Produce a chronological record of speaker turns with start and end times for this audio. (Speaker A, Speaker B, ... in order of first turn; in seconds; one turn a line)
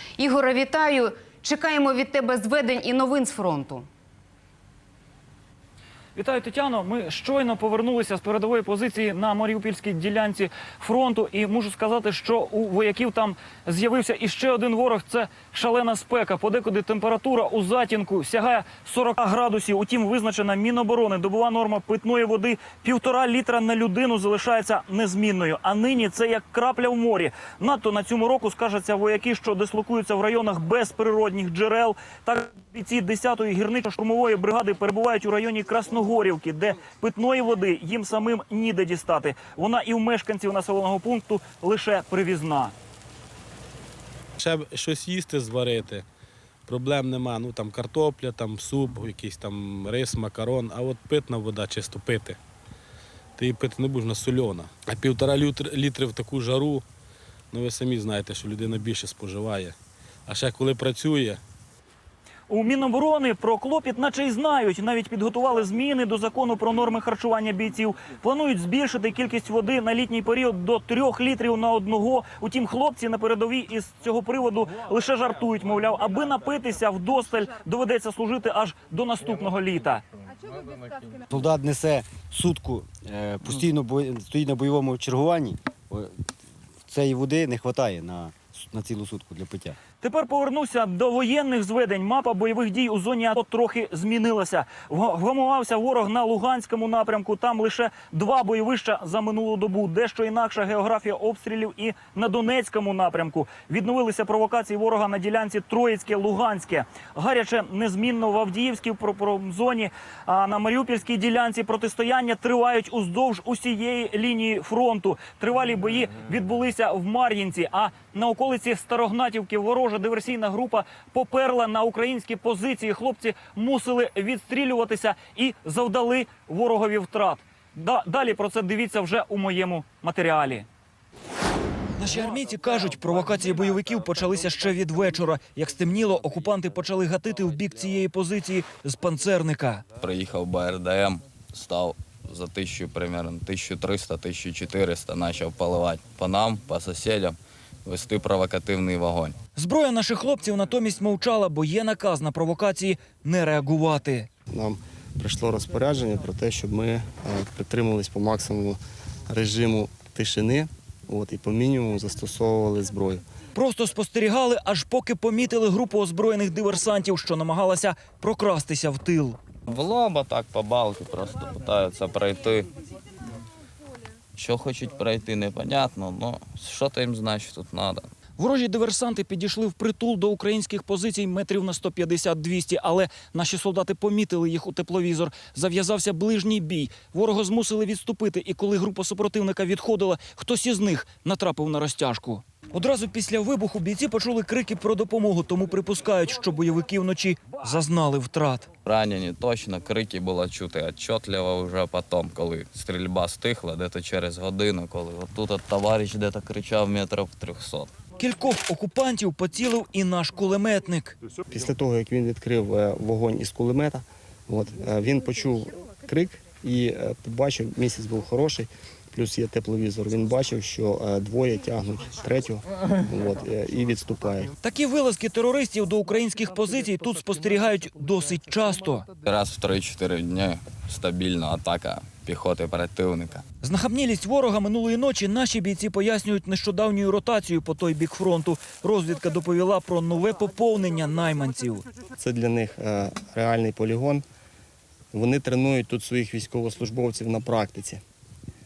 Speaker A: 0.2-3.9
Speaker B: 6.2-42.7
Speaker C: 44.4-46.0
Speaker C: 46.7-52.4
Speaker C: 53.4-56.8
Speaker C: 57.5-61.4
Speaker B: 62.5-80.0
Speaker D: 81.3-86.2
Speaker D: 86.8-89.8
Speaker B: 90.0-130.7
Speaker B: 132.0-139.8
Speaker E: 140.0-149.4
Speaker B: 149.6-154.3
Speaker F: 154.5-163.2
Speaker B: 163.6-169.4
Speaker E: 169.7-172.7
Speaker E: 174.3-178.1
Speaker B: 178.4-198.7
Speaker E: 198.8-207.9
Speaker B: 208.2-211.2
Speaker F: 211.5-224.5
Speaker B: 224.6-229.1
Speaker E: 229.2-233.4
Speaker B: 233.6-241.8
Speaker F: 242.2-244.2
Speaker F: 245.1-248.0